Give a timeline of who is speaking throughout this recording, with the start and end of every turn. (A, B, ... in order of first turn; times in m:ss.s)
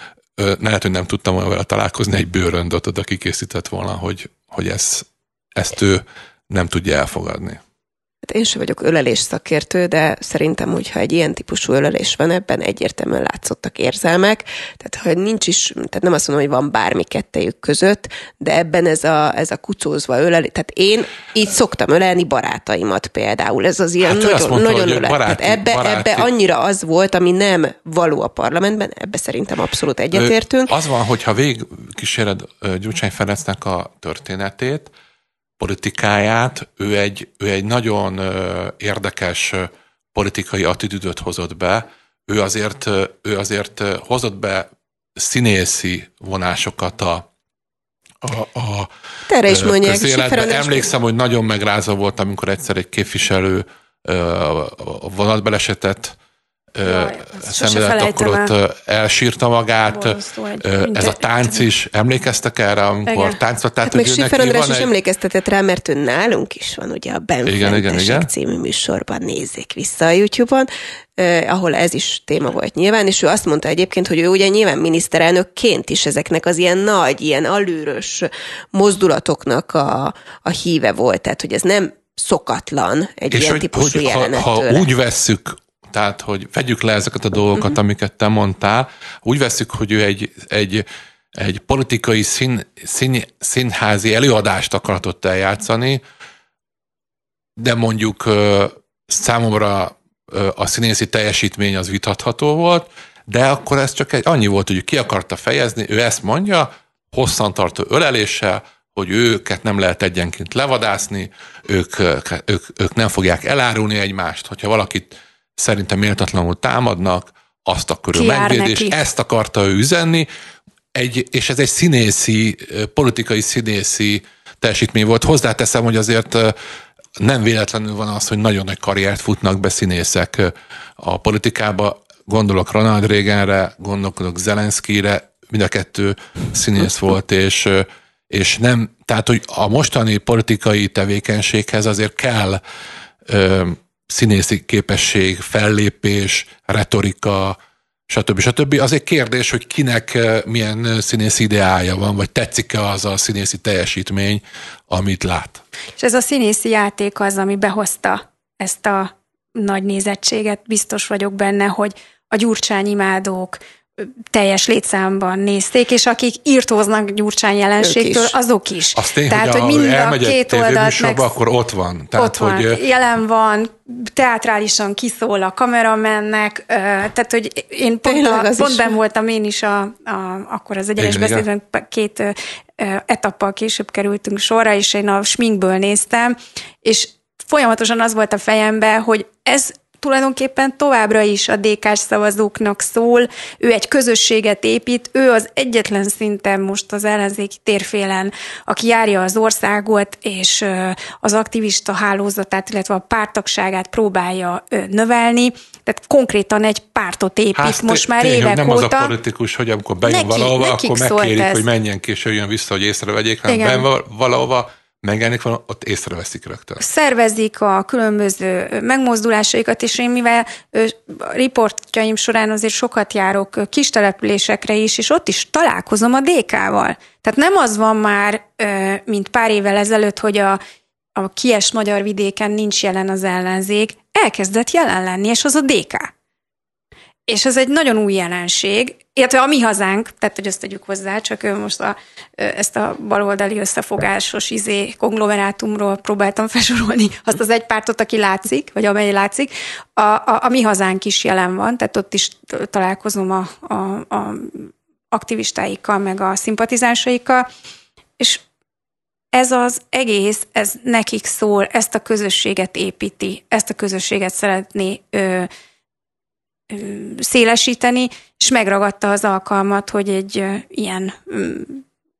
0:00.4-0:07.6 A
0:08.2-0:30.7 B
0:24.0-0:26.3 A
0:30.1-0:34.9 A
0:35.6-0:47.2 A
0:48.2-0:48.9 A
0:49.3-0:50.9 B
0:49.5-0:56.2 A
0:56.8-1:04.9 A
0:56.8-0:58.5 C
0:59.9-1:01.7 C
1:03.1-1:03.4 C
1:03.8-1:24.9 B
1:07.4-1:08.3 A
1:23.3-1:36.0 A
1:37.6-2:00.3 A
1:58.1-1:59.0 C
2:01.0-2:06.6 A
2:07.2-2:22.6 A
2:23.3-2:27.6 A
2:28.1-2:35.6 A
2:36.0-2:51.3 C
2:47.8-2:48.4 B
2:49.0-2:52.8 A
2:52.2-3:29.1 C
2:58.0-2:59.0 B
3:01.0-3:01.4 A
3:27.6-3:36.8 A
3:30.1-3:31.6 C
3:33.5-3:33.9 C
3:36.8-3:50.6 C
3:51.2-3:56.1 C
3:57.3-4:17.5 C
4:19.3-4:25.5 C
4:26.7-4:31.8 C